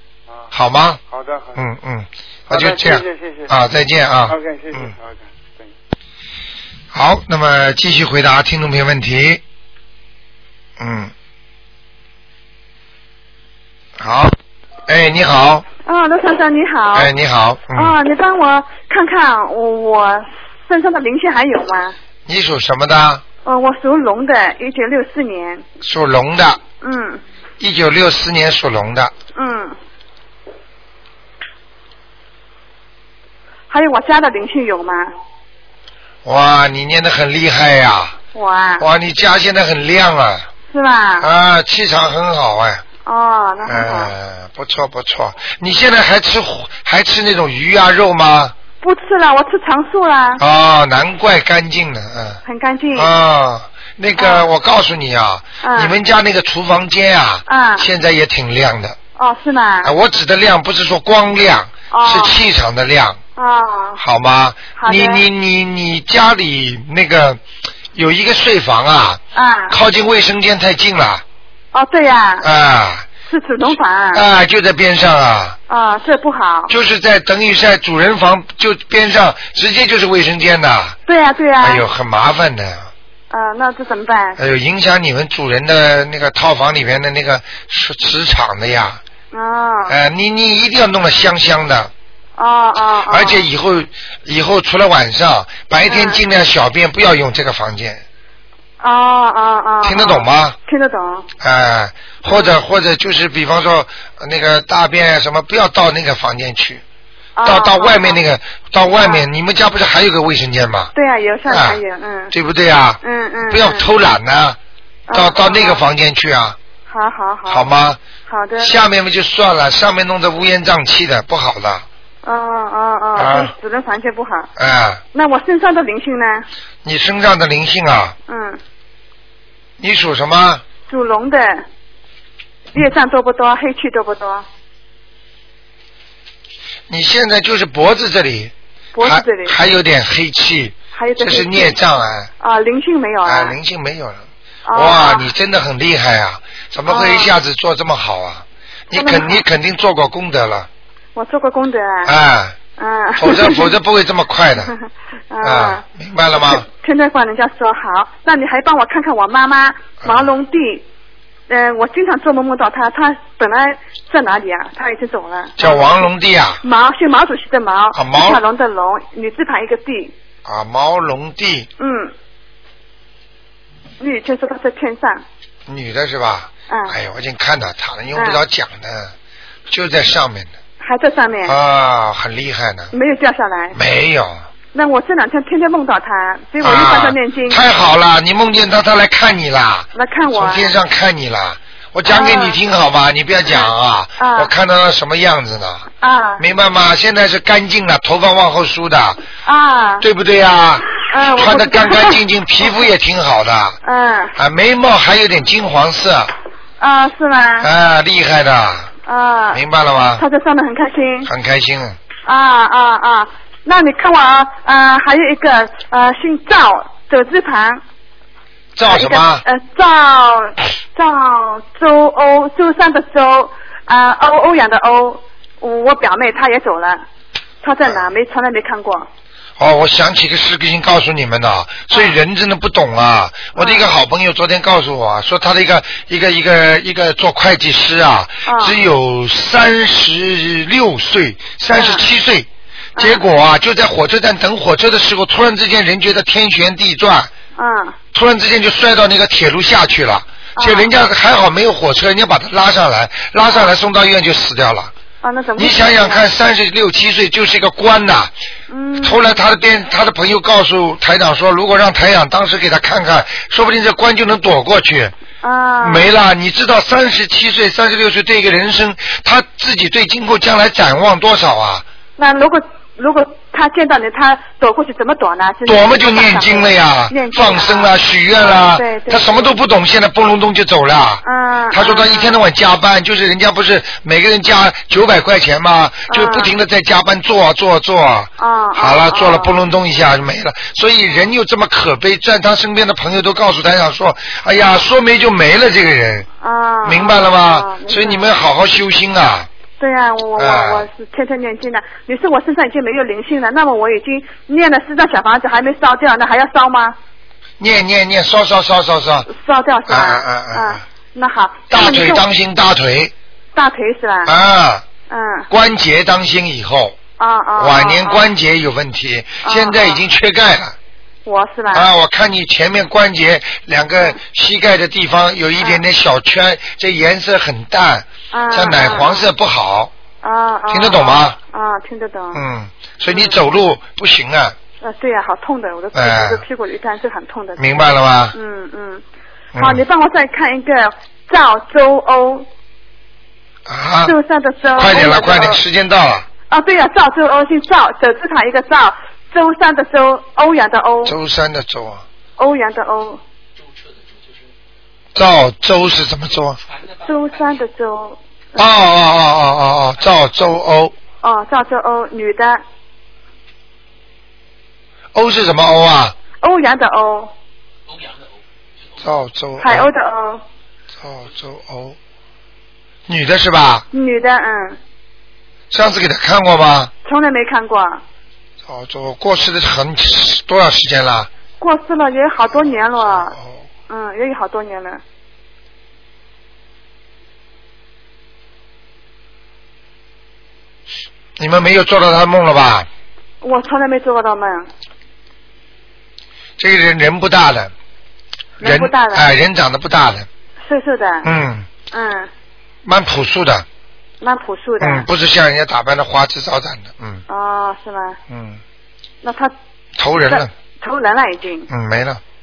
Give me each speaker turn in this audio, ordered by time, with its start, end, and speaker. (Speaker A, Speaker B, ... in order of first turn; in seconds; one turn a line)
Speaker A: 0.3-0.5
Speaker B: 0.5-1.0
Speaker A: 1.1-1.6
Speaker B: 1.6-4.9
Speaker A: 2.5-3.5
Speaker A: 4.3-5.7
Speaker B: 6.9-9.4
Speaker B: 10.8-11.1
Speaker B: 14.0-14.3
Speaker B: 14.9-15.7
Speaker C: 15.8-17.1
Speaker B: 16.9-17.9
Speaker C: 17.7-22.0
Speaker B: 22.3-23.2
Speaker C: 23.4-25.6
Speaker B: 25.8-26.6
Speaker C: 26.8-27.2
Speaker B: 27.6-29.1
Speaker C: 29.4-29.8
Speaker C: 33.7-35.1
Speaker B: 36.2-38.2
Speaker C: 38.4-38.9
Speaker B: 38.8-40.5
Speaker C: 40.7-41.3
Speaker B: 41.2-42.8
Speaker C: 43.0-44.1
Speaker B: 43.7-48.5
Speaker C: 48.8-50.4
Speaker B: 50.4-52.4
Speaker C: 52.5-53.1
Speaker B: 53.0-59.0
Speaker C: 54.1-54.5
Speaker C: 55.6-56.0
Speaker C: 57.5-57.9
Speaker C: 59.2-59.9
Speaker B: 59.8-63.2
Speaker C: 61.9-62.4
Speaker C: 63.4-64.0
Speaker B: 64.0-67.4
Speaker C: 64.8-65.2
Speaker B: 67.9-71.2
Speaker C: 69.3-69.8
Speaker C: 71.7-72.5
Speaker B: 72.4-73.1
Speaker C: 73.3-74.2
Speaker B: 74.1-75.6
Speaker C: 75.7-76.7
Speaker B: 76.7-81.0
Speaker C: 81.1-81.9
Speaker B: 81.6-82.9
Speaker C: 83.3-84.4
Speaker B: 84.4-89.0
Speaker C: 89.3-90.0
Speaker B: 89.9-91.9
Speaker C: 92.4-93.5
Speaker B: 93.1-98.0
Speaker C: 95.9-96.2
Speaker C: 98.8-101.3
Speaker B: 99.8-100.6
Speaker B: 101.4-106.8
Speaker C: 102.3-102.6
Speaker C: 107.4-108.2
Speaker B: 107.5-110.9
Speaker C: 108.9-109.2
Speaker C: 110.9-112.3
Speaker B: 111.5-111.8
Speaker B: 112.3-114.6
Speaker C: 113.0-113.8
Speaker C: 115.1-115.8
Speaker B: 115.1-116.6
Speaker C: 116.9-117.7
Speaker B: 117.5-118.0
Speaker C: 118.3-118.8
Speaker B: 118.6-121.9
Speaker C: 122.2-124.5
Speaker B: 123.2-123.5
Speaker B: 124.6-125.0
Speaker C: 125.1-126.5
Speaker B: 126.8-128.2
Speaker C: 128.3-128.6
Speaker B: 129.8-130.6
Speaker C: 130.9-131.7
Speaker C: 132.7-134.5
Speaker B: 136.9-142.3
Speaker C: 138.9-139.6
Speaker C: 140.9-141.8
Speaker C: 142.4-143.6
Speaker B: 143.3-150.7
Speaker C: 144.7-145.3
Speaker C: 146.9-147.3
Speaker C: 148.9-149.4
Speaker C: 151.2-152.2
Speaker B: 152.1-152.6
Speaker C: 152.8-153.7
Speaker B: 153.2-154.7
Speaker C: 154.6-155.8
Speaker B: 155.4-156.7
Speaker C: 156.3-160.8
Speaker C: 161.5-166.1
Speaker B: 165.6-166.6
Speaker C: 166.6-170.1
Speaker B: 167.9-168.4
Speaker B: 170.4-171.7
Speaker C: 171.8-172.1
Speaker C: 174.0-175.2
Speaker B: 175.7-179.1
Speaker C: 176.7-176.9
Speaker C: 178.2-178.4
Speaker B: 179.7-180.5
Speaker C: 180.8-181.6
Speaker B: 181.4-182.9
Speaker C: 182.9-183.8
Speaker B: 183.7-184.5
Speaker C: 184.7-187.6
Speaker B: 186.6-195.9
Speaker C: 189.9-190.8
Speaker C: 192.1-192.6
Speaker C: 193.5-194.5
Speaker C: 196.0-196.4
Speaker B: 196.4-199.2
Speaker C: 199.4-200.1
Speaker B: 200.0-203.8
Speaker C: 201.1-202.2
Speaker C: 203.8-204.4
Speaker B: 204.4-206.3
Speaker C: 206.8-207.7
Speaker B: 207.6-208.9
Speaker C: 209.1-209.6
Speaker B: 209.5-210.2
Speaker C: 210.2-211.3
Speaker B: 211.3-212.0
Speaker C: 212.3-217.8
Speaker B: 218.8-219.4
Speaker C: 218.8-227.0
Speaker C: 227.6-229.1
Speaker B: 229.6-247.3
Speaker C: 231.9-232.2
Speaker C: 233.5-233.9
Speaker C: 238.4-238.8
Speaker C: 241.7-242.1
Speaker C: 243.0-243.2
Speaker C: 247.6-248.0
Speaker B: 248.1-254.9
Speaker C: 250.6-250.9
Speaker C: 253.4-253.8
Speaker C: 255.2-256.3
Speaker B: 255.6-258.3
Speaker C: 258.7-259.3
Speaker B: 259.0-265.1
Speaker C: 265.4-266.1
Speaker B: 265.8-271.9
Speaker C: 272.2-279.6
Speaker B: 275.7-296.3
Speaker C: 281.2-282.4
Speaker C: 286.1-286.6
Speaker C: 288.4-289.6
Speaker C: 296.4-298.3
Speaker B: 296.8-299.5
Speaker C: 299.8-307.0
Speaker B: 300.4-300.9
Speaker B: 307.6-309.3
Speaker C: 309.3-312.2
Speaker B: 309.9-310.8
Speaker B: 311.7-313.1
Speaker C: 313.6-314.3
Speaker B: 314.3-314.9
Speaker C: 315.1-315.5
Speaker B: 315.5-317.0
Speaker C: 317.2-318.3
Speaker B: 317.6-320.8
Speaker C: 319.4-320.0
Speaker C: 321.2-321.9
Speaker B: 321.7-329.9
Speaker C: 328.3-329.3
Speaker C: 330.2-332.4
Speaker B: 330.7-331.4
Speaker B: 332.3-334.6
Speaker C: 333.1-333.4
Speaker C: 334.8-337.8
Speaker B: 335.9-336.4
Speaker B: 337.6-338.4
Speaker C: 338.3-339.0
Speaker B: 339.5-339.8
Speaker C: 339.6-342.5
Speaker B: 343.7-344.1
Speaker C: 344.0-345.6
Speaker B: 344.8-346.3
Speaker C: 346.5-351.2
Speaker B: 351.1-352.1
Speaker C: 352.4-353.2
Speaker B: 355.1-356.6
Speaker C: 357.0-358.7
Speaker B: 358.6-360.9
Speaker C: 361.2-362.6
Speaker B: 365.1-366.2
Speaker C: 366.4-367.3
Speaker B: 369.0-369.9
Speaker C: 369.6-370.4
Speaker B: 371.0-372.0
Speaker B: 373.1-373.9
Speaker C: 373.9-374.8
Speaker B: 375.7-376.9
Speaker C: 377.1-378.0
Speaker B: 378.6-381.3
Speaker C: 381.6-383.4
Speaker B: 382.5-383.6
Speaker C: 383.9-385.0
Speaker B: 391.4-392.9
Speaker C: 393.4-394.7
Speaker B: 396.6-397.7
Speaker C: 398.6-399.3
Speaker B: 398.6-400.3
Speaker C: 400.6-401.3
Speaker B: 401.2-401.7
Speaker C: 401.9-402.3
Speaker B: 402.9-403.7
Speaker C: 404.2-405.1
Speaker B: 404.8-407.2
Speaker C: 407.3-408.2
Speaker B: 408.3-408.6
Speaker C: 409.2-409.5
Speaker B: 410.0-410.5
Speaker C: 410.3-411.7
Speaker B: 411.7-412.2